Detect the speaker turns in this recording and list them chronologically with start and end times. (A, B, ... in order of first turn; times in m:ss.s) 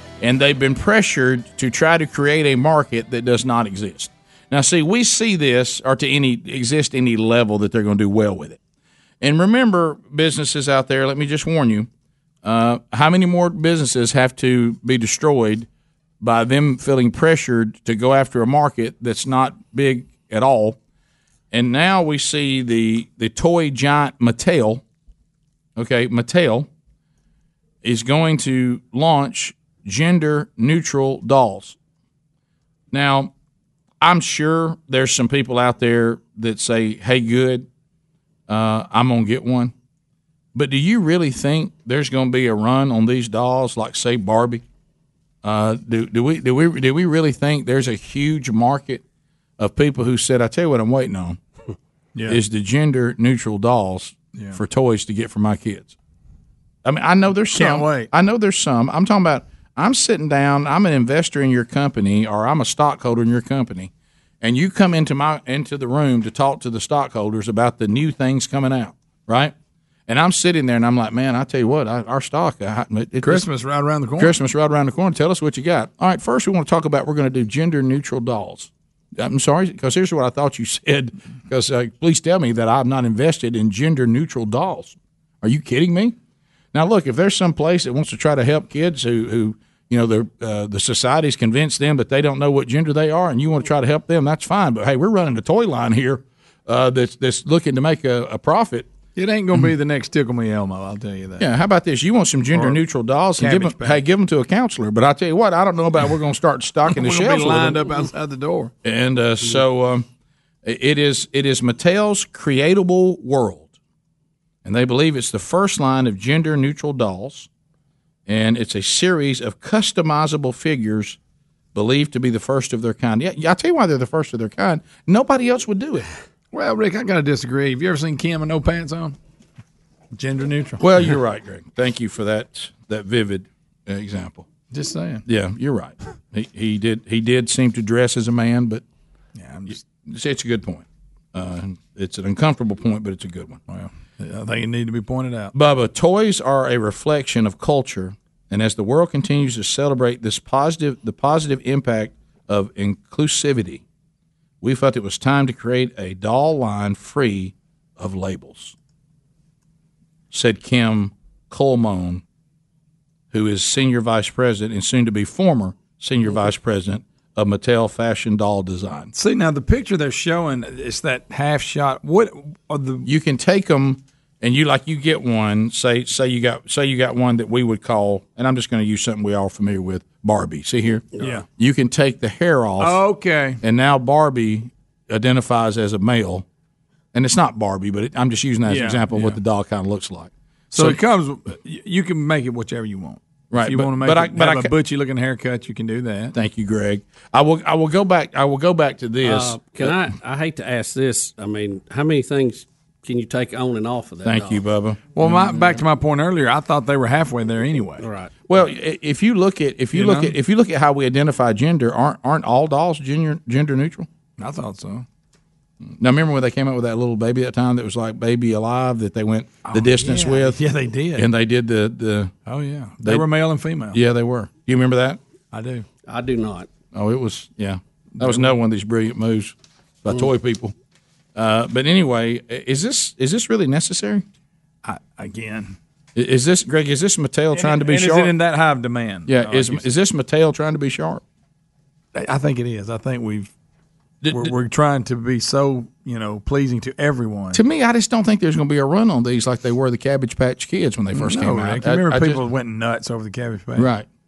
0:00.2-0:08.6 A
0:09.2-0:11.9 A
0:12.4-0:15.7 A
0:16.2-0:20.8 A
0:21.5-0:24.8 A
0:25.8-0:26.7 A
0:27.8-0:31.8 A
0:32.9-0:33.3 A
0:34.0-0:37.7 A
0:38.5-0:39.7 A
0:40.5-0:44.6 A
0:45.4-0:49.0 A
0:49.6-0:51.4 A
0:52.3-0:55.9 A
0:56.8-1:09.5 A
0:57.5-0:58.1 B
1:10.1-1:13.5 A
1:13.2-1:14.3 B
1:14.2-1:26.2 A
1:26.7-1:38.9 A
1:39.2-1:41.4 B
1:41.4-1:47.8 A
1:42.5-1:42.8 B
1:43.4-1:44.0 B
1:46.9-1:48.7 B
1:48.8-1:50.0 A
1:50.6-1:53.7 A
1:54.6-1:57.5 A
1:58.2-2:01.2 A
2:01.7-2:06.1 A
2:06.5-2:09.2 B
2:10.1-2:10.8 B
2:10.8-2:14.5 A
2:14.7-2:15.2 B
2:15.2-2:18.8 A
2:19.4-2:19.8 B
2:20.0-2:23.6 A
2:23.7-2:25.5 B
2:25.5-2:33.8 A
2:34.6-2:38.7 A
2:40.3-2:42.2 A
2:43.3-2:49.1 A
2:49.1-2:53.1 B
2:53.0-3:03.0 A
3:01.2-3:01.4 B
3:02.8-3:03.6 B
3:03.6-3:06.4 A
3:07.1-3:11.0 A
3:08.6-3:09.4 B
3:10.7-3:16.3 B
3:13.5-3:14.7 A
3:16.3-3:19.9 A
3:19.2-3:24.6 C
3:24.2-3:25.6 A
3:25.1-3:28.0 B
3:28.0-3:28.3 C
3:28.5-3:34.1 A
3:29.9-3:30.3 B
3:34.4-3:35.0 B
3:35.8-3:40.6 A
3:39.7-3:41.3 B
3:41.1-3:42.3 A
3:42.5-3:44.0 B
3:43.9-3:45.2 A
3:45.5-3:45.8 B
3:46.0-3:46.7 C
3:46.9-3:50.7 A
3:48.2-3:48.5 B
3:51.3-3:54.2 A
3:54.8-3:55.8 B
3:56.1-3:58.3 A
3:57.5-3:59.9 B
3:59.3-4:01.2 A
4:02.1-4:03.5 B
4:04.2-4:04.5 A
4:04.3-4:07.6 B
4:07.5-4:12.4 A
4:11.1-4:13.9 B
4:13.8-4:14.1 A